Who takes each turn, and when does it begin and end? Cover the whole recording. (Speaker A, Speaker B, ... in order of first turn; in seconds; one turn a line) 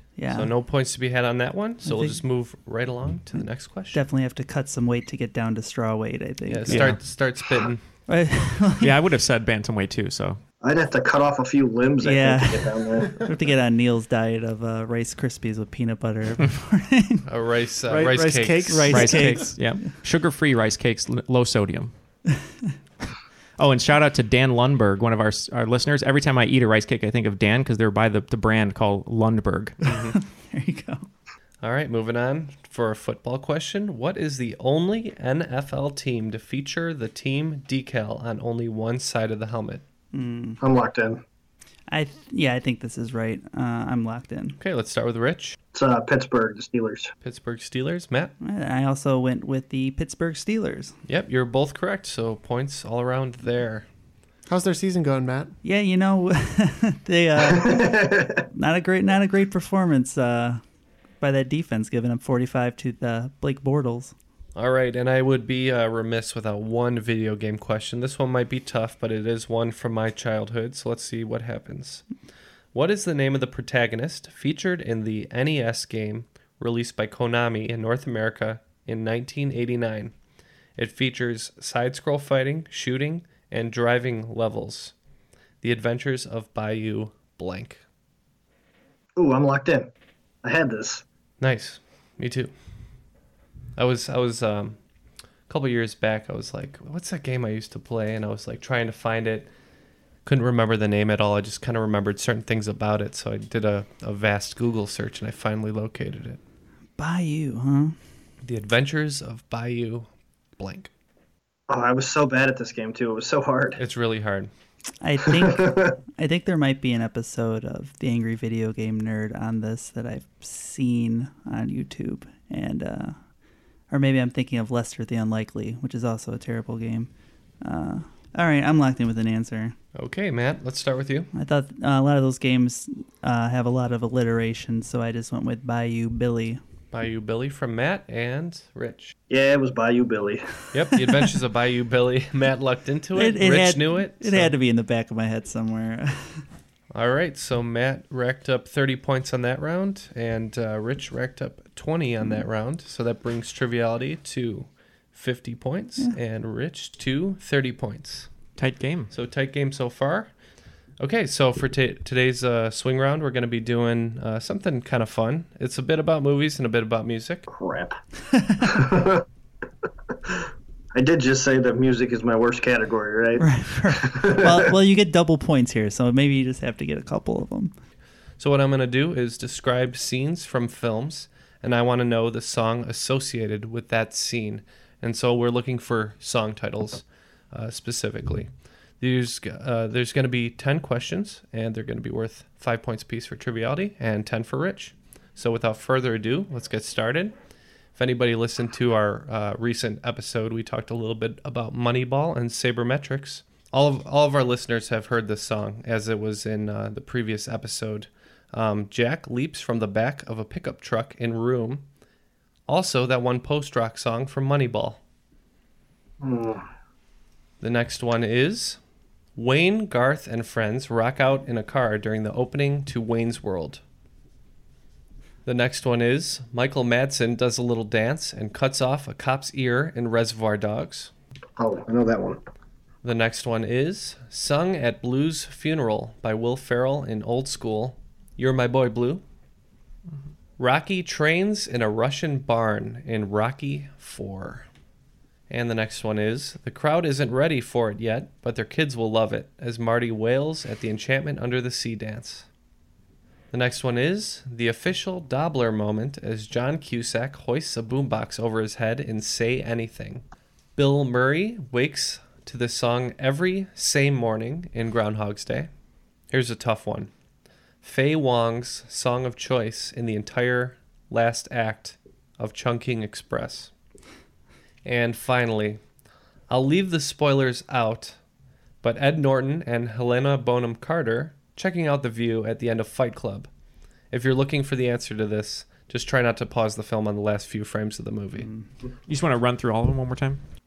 Speaker A: 0.2-0.5
Speaker B: 0.3-4.0
Speaker A: 1.8-2.2
Speaker A: 3.3-6.9
Speaker B: 6.5-7.8
Speaker C: 6.7-7.0
Speaker A: 8.1-8.9
Speaker C: 8.8-10.4
Speaker D: 10.6-13.2
Speaker A: 12.0-17.2
Speaker B: 17.2-18.9
Speaker E: 17.9-19.5
Speaker A: 18.6-19.7
Speaker C: 18.9-21.9
Speaker C: 23.6-29.8
Speaker B: 29.8-30.1
Speaker A: 30.1-31.1
Speaker B: 31.6-39.8
Speaker A: 40.1-40.6
Speaker D: 40.6-41.2
Speaker A: 41.9-44.6
Speaker B: 44.6-45.5
Speaker D: 45.7-47.1
Speaker B: 47.2-48.3
Speaker A: 48.4-51.0
Speaker B: 51.1-53.9
Speaker E: 54.5-55.5
Speaker A: 55.6-57.9
Speaker D: 57.4-58.4
Speaker A: 58.5-60.6
Speaker A: 61.2-64.1
Speaker B: 64.5-72.0
Speaker B: 72.7-80.1
Speaker B: 80.8-84.9
Speaker B: 85.6-87.8
Speaker D: 89.2-89.9
Speaker D: 90.4-91.0
Speaker B: 91.4-92.5
Speaker B: 93.8-94.8
Speaker B: 95.5-99.5
Speaker B: 100.2-106.4
Speaker A: 107.0-108.0
Speaker B: 108.4-110.9
Speaker D: 111.7-113.8
Speaker B: 113.8-114.5
Speaker A: 115.0-123.2
Speaker D: 115.3-116.0
Speaker A: 123.9-127.1
Speaker A: 127.6-129.7
Speaker B: 129.9-131.3
Speaker A: 131.3-136.6
Speaker B: 136.9-139.1
Speaker D: 139.3-140.4
Speaker B: 140.7-144.5
Speaker A: 143.2-146.4
Speaker B: 146.9-158.3
Speaker C: 158.6-159.1
Speaker B: 159.1-160.3
Speaker B: 161.0-167.5
Speaker D: 167.5-168.0
Speaker A: 168.3-168.7
Speaker D: 168.6-169.2
Speaker D: 170.9-173.5
Speaker A: 173.4-177.7
Speaker D: 174.0-174.7
Speaker B: 178.4-188.5
Speaker B: 189.0-197.3
Speaker B: 197.9-211.8
Speaker B: 212.7-215.0
Speaker D: 216.2-216.6
Speaker B: 217.6-218.8
Speaker B: 219.3-223.8
Speaker B: 225.4-231.1
Speaker D: 231.6-232.4
Speaker B: 233.0-239.2
Speaker B: 240.6-244.7
Speaker B: 245.5-252.5
Speaker B: 253.5-260.2
Speaker B: 260.8-265.7
Speaker B: 266.3-267.1
Speaker B: 267.8-273.7
Speaker B: 274.8-275.8
Speaker B: 276.5-278.2
Speaker B: 278.8-283.5
Speaker B: 284.1-288.5
Speaker C: 289.1-290.4